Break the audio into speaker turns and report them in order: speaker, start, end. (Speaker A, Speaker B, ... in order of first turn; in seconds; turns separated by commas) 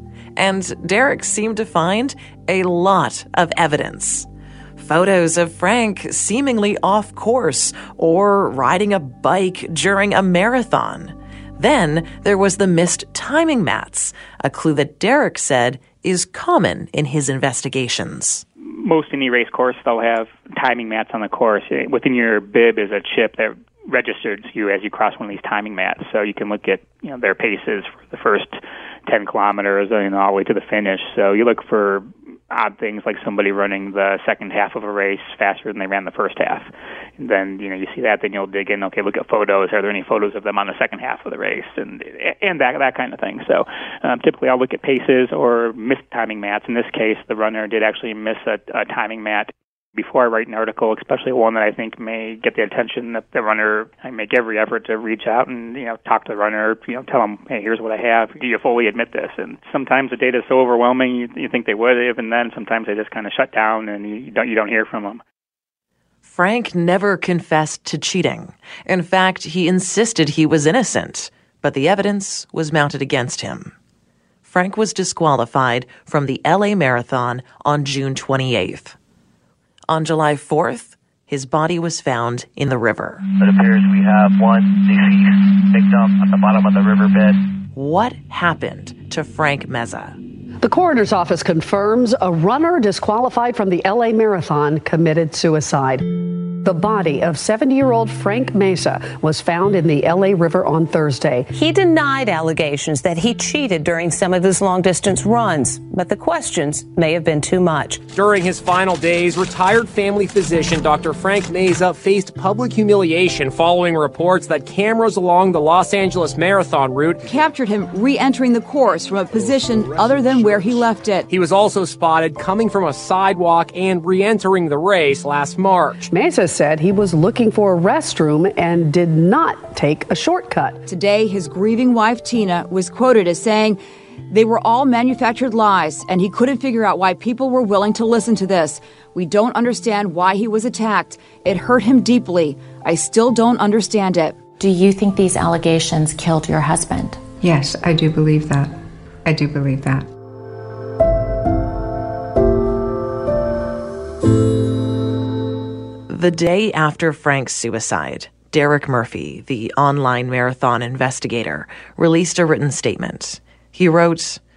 Speaker A: 0.4-18.4, Speaker B: 18.6-65.2, Speaker A: 66.2-73.7, Speaker A: 74.5-79.0, Speaker A: 79.9-83.3, Speaker C: 83.4-87.4, Speaker A: 87.7-90.2, Speaker D: 90.6-101.5, Speaker E: 101.5-108.1, Speaker F: 108.1-117.2, Speaker G: 117.3-121.3, Speaker F: 119.3-126.1, Speaker D: 126.1-130.8, Speaker G: 130.9-144.4, Speaker H: 144.6-147.2, Speaker I: 147.4-148.7, Speaker I: 149.3-150.0, Speaker A: 156.1-164.4